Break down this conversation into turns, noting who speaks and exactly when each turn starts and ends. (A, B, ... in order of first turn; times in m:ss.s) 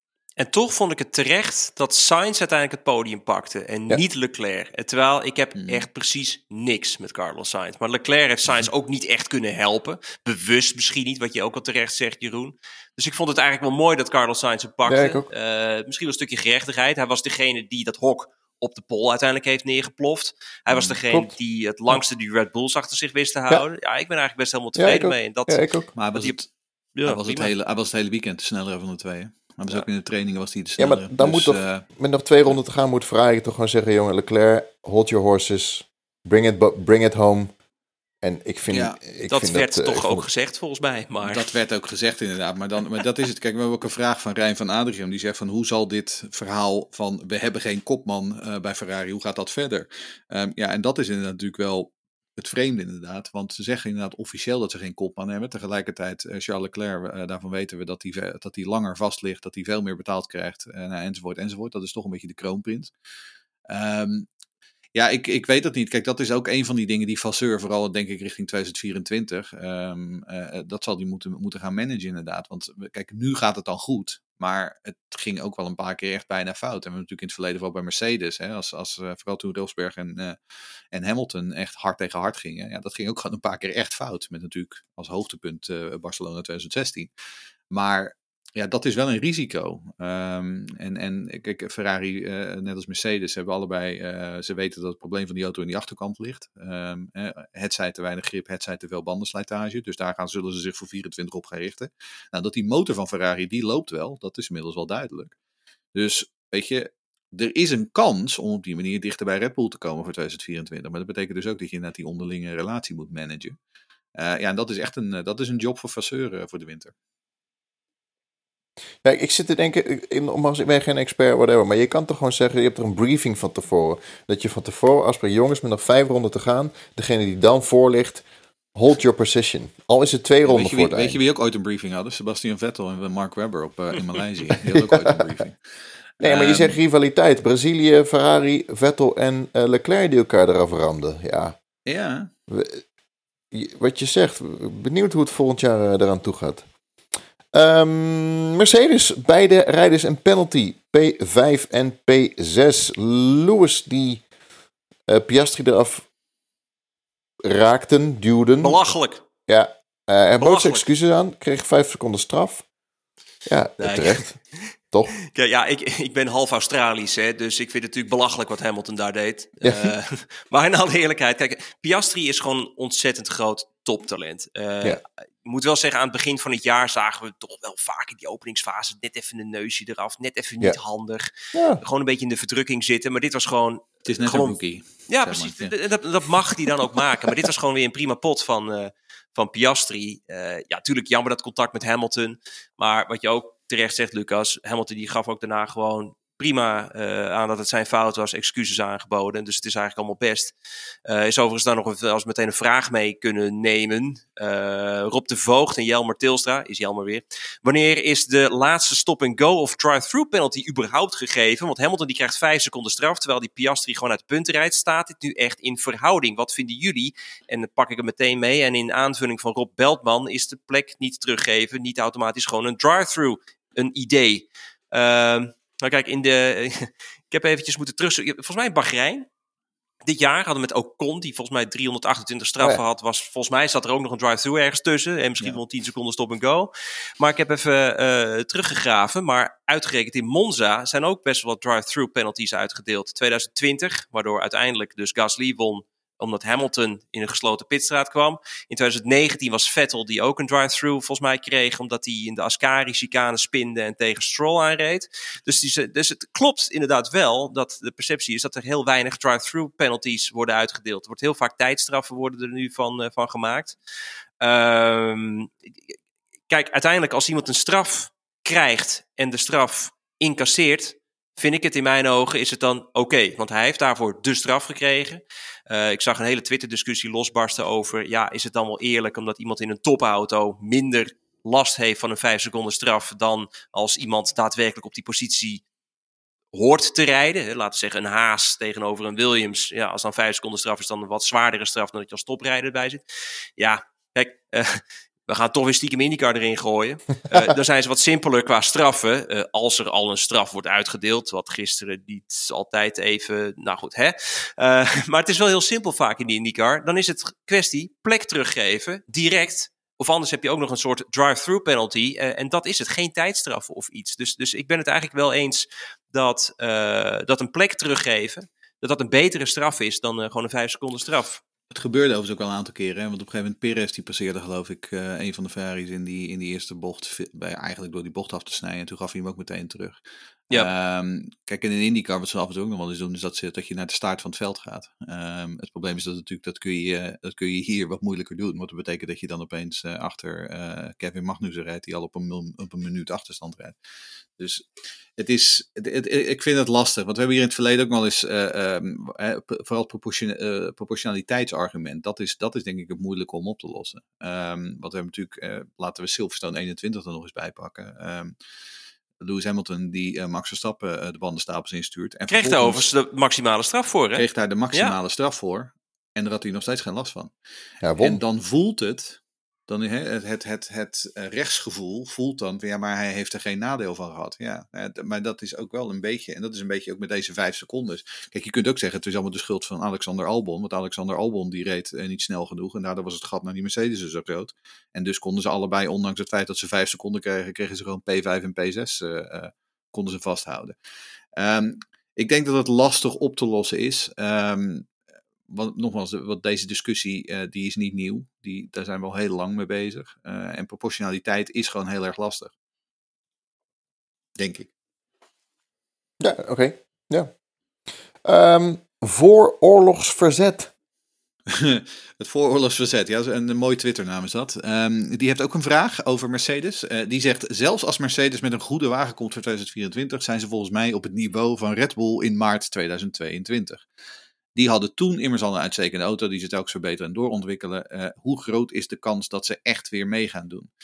0:00.4-0:26.4 A
0:05.6-0:05.8 B
0:14.9-0:15.3 C
0:20.7-0:21.0 B
0:24.8-0:25.9 C
0:26.0-0:26.5 B
0:27.0-0:27.5 A
0:27.0-0:31.8 B
0:30.8-0:37.5 C
0:38.2-0:40.2 C
0:38.7-0:39.0 B
0:39.3-0:41.4 A
0:41.2-1:02.9 B
1:03.7-1:04.3 B
1:04.9-1:20.4 B
1:20.9-1:27.1 B
1:27.7-1:45.3 B
1:45.9-1:53.6 B
1:54.2-1:56.9 B
1:59.0-2:08.2 C
2:08.7-2:11.2 C
2:10.4-2:15.6 B
2:14.7-2:15.2 C
2:16.2-2:16.8 B
2:16.2-2:21.6 C
2:21.8-2:22.3 B
2:22.5-2:22.8 C
2:23.5-2:26.6 C
2:27.5-2:34.2 C
2:35.1-2:36.1 C
2:37.4-2:38.9 C
2:38.6-2:39.2 A
2:39.5-2:42.6 C
2:40.4-2:40.8 A
2:43.4-2:45.1 C
2:43.8-2:44.6 A
2:45.3-3:20.5 A
2:49.6-2:49.9 C
3:01.5-3:01.8 C
3:04.0-3:05.8 B
3:21.0-3:49.3 A
3:50.0-4:23.8 A
4:24.4-4:25.5 A
4:26.5-4:45.6 A
4:46.5-4:53.0 A
4:53.6-5:21.4 A
5:21.7-5:30.0 B
5:30.5-5:43.8 B
5:44.4-5:44.6 B
5:45.2-5:58.3 B
5:59.2-6:02.9 B
6:02.3-6:05.0 A
6:04.2-6:07.3 B
6:07.8-6:08.2 C
6:08.0-6:30.7 B
6:31.4-6:34.9 B
6:35.5-6:42.5 B
6:44.4-6:44.7 B
6:46.2-6:47.3 C
6:48.2-6:50.7 C
6:51.5-7:03.8 B
7:04.5-7:10.7 B